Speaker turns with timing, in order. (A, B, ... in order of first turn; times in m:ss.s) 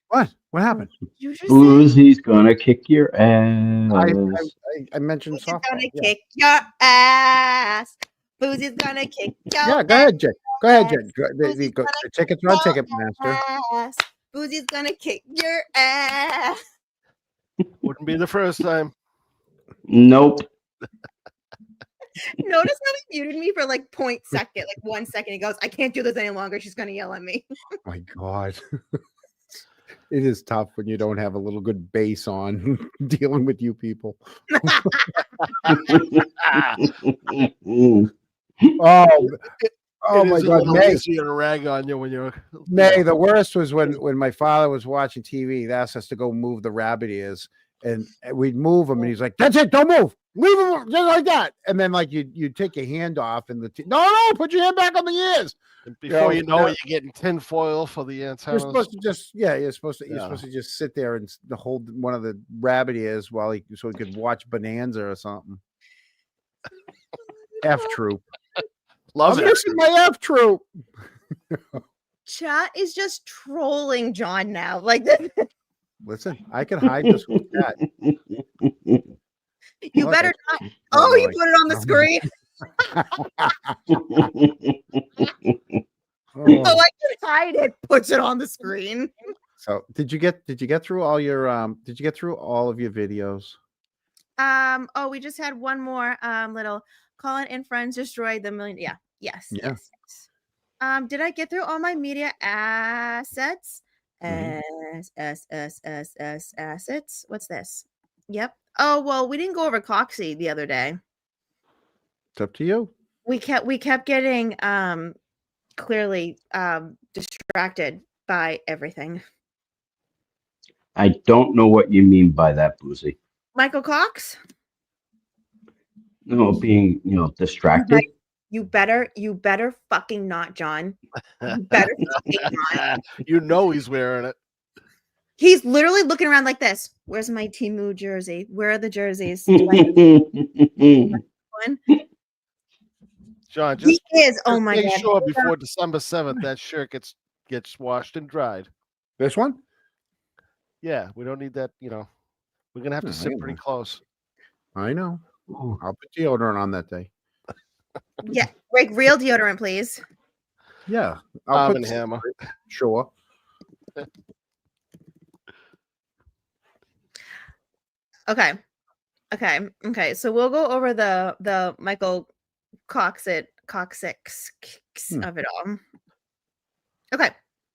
0:00.1-0:00.9 A
0:01.1-0:02.0 B
0:01.5-0:04.4 C
0:03.9-0:06.1 A
0:05.3-0:16.6 B
0:09.6-0:13.4 A
0:17.8-0:18.9 D
0:19.9-0:20.5 C
0:22.4-0:27.5 B
0:27.9-0:28.6 A
0:30.1-0:35.1 A
0:35.7-0:36.2 C
0:36.8-0:38.1 C
0:38.8-0:39.4 A
0:40.0-0:41.0 A
0:40.1-0:43.0 D
0:42.7-0:56.8 A
0:55.9-0:58.8 D
0:58.5-1:05.6 A
1:00.1-1:00.4 D
1:07.6-1:08.2 A
1:09.1-1:09.6 D
1:09.3-1:10.6 A
1:11.5-1:11.8 A
1:12.3-1:15.4 B
1:16.0-1:17.8 A
1:18.0-1:19.0 C
1:19.8-1:22.3 B
1:20.0-1:20.4 A
1:20.9-1:22.2 A
1:23.0-1:23.7 A
1:23.9-1:24.8 C
1:26.4-1:26.8 A
1:26.5-1:29.1 B
1:29.6-1:33.6 A
1:34.4-1:40.2 B
1:39.5-1:39.8 A
1:40.8-1:51.0 B
1:44.3-1:44.6 A
1:52.4-1:52.9 A
1:53.2-1:55.2 B
1:55.8-1:59.2 B
2:01.0-2:03.2 C
2:03.5-2:04.4 B
2:06.3-2:08.0 C
2:07.7-2:12.8 B
2:11.4-2:11.8 D
2:12.6-2:14.4 D
2:15.4-2:20.1 B
2:19.5-2:21.2 C
2:21.1-2:21.8 B
2:23.5-2:28.7 D
2:23.8-2:25.5 B
2:29.2-2:29.6 A
2:30.8-2:32.1 D
2:32.7-2:34.0 D
2:33.0-2:33.6 A
2:34.8-2:35.2 A
2:35.5-2:35.8 C
2:35.8-2:37.1 A
2:38.2-2:40.0 B
2:40.9-2:43.1 A
2:41.5-2:42.3 D
2:48.3-2:48.6 B
2:49.3-2:52.3 B
2:52.9-2:55.8 B